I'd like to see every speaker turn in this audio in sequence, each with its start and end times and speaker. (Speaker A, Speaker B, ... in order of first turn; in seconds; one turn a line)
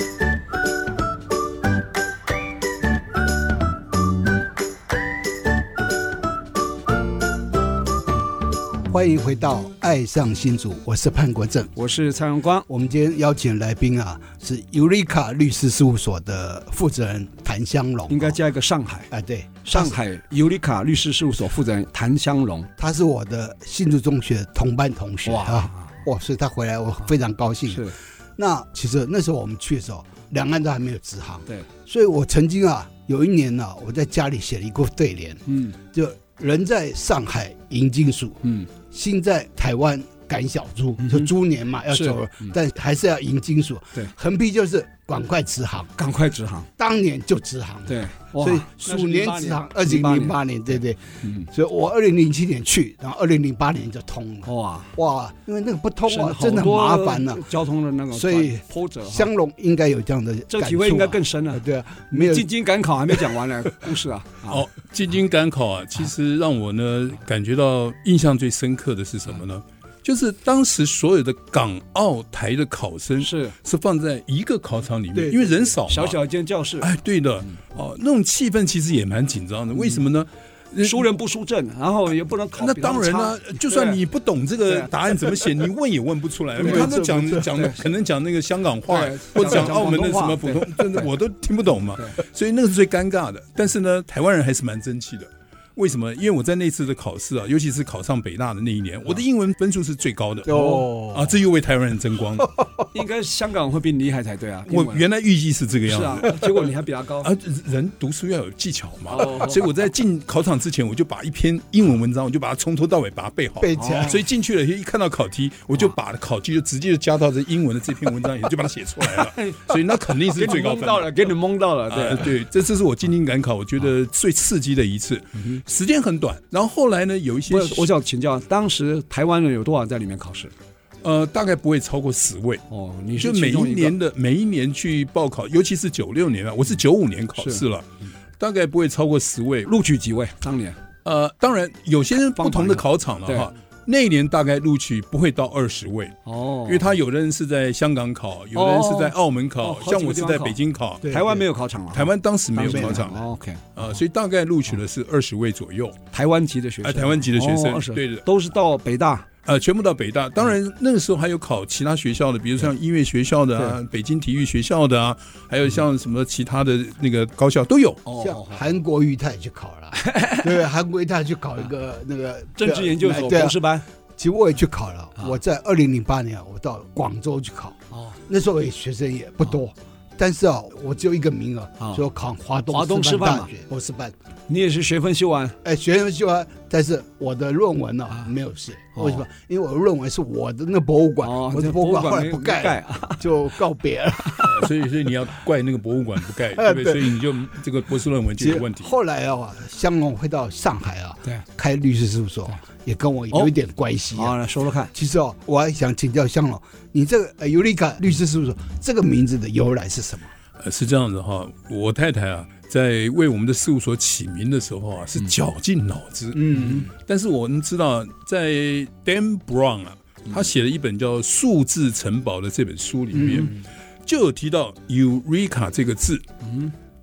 Speaker A: 8.9-11.7
Speaker B: 11.7-12.7
Speaker A: 12.7-18.4
Speaker B: 18.1-19.1
Speaker A: 19.1-20.0
Speaker B: 19.6-22.7
Speaker A: 22.8-45.9
Speaker B: 25.2-25.9
Speaker B: 27.7-27.9
Speaker B: 35.5-35.8
Speaker B: 38.4-38.7
Speaker B: 41.0-41.3
Speaker B: 41.9-42.5
Speaker B: 46.0-46.7
Speaker A: 46.8-57.4
Speaker B: 47.9-50.4
Speaker B: 51.2-51.5
Speaker B: 54.4-54.9
Speaker B: 56.0-59.3
Speaker A: 58.1-62.5
Speaker B: 60.5-64.6
Speaker C: 64.5-76.2
Speaker B: 73.2-73.5
Speaker A: 75.1-75.8
Speaker B: 75.9-76.9
Speaker C: 76.8-81.0
Speaker B: 80.8-84.0
Speaker C: 82.6-102.5
Speaker B: 84.7-84.9
Speaker A: 86.6-87.5
Speaker B: 86.6-87.0
Speaker B: 87.5-87.8
Speaker B: 88.9-91.1
Speaker A: 100.4-101.3
Speaker B: 102.9-105.0
Speaker C: 104.7-106.7
Speaker B: 105.8-107.3
Speaker C: 107.2-121.1
Speaker B: 109.1-109.7
Speaker A: 113.6-114.2
Speaker B: 113.8-114.2
Speaker B: 119.0-119.8
Speaker B: 120.3-122.3
Speaker C: 121.9-127.9
Speaker B: 127.5-130.5
Speaker C: 131.0-132.6
Speaker B: 132.7-133.9
Speaker C: 133.2-137.9
Speaker B: 137.4-137.6
Speaker C: 138.4-139.7
Speaker B: 139.7-140.8
Speaker C: 141.0-151.1
Speaker B: 142.3-143.5
Speaker B: 146.2-146.9
Speaker B: 148.5-153.9
Speaker A: 151.0-151.4
Speaker C: 151.9-153.2
Speaker A: 152.6-153.1
Speaker C: 153.8-156.0
Speaker B: 156.1-159.3
Speaker C: 156.8-158.2
Speaker C: 159.4-168.0
Speaker B: 168.0-168.6
Speaker A: 168.2-173.6
Speaker B: 169.9-170.5
Speaker B: 172.6-173.8
Speaker A: 174.2-184.1
Speaker B: 182.7-183.5
Speaker B: 184.5-185.6
Speaker A: 185.6-194.7
Speaker B: 188.9-189.2
Speaker B: 191.2-193.2
Speaker C: 194.4-198.9
Speaker A: 196.5-197.1
Speaker A: 198.4-204.4
Speaker B: 204.1-204.9
Speaker A: 204.9-210.3
Speaker C: 210.6-226.2
Speaker A: 216.3-216.9
Speaker A: 223.1-223.5
Speaker B: 226.4-226.7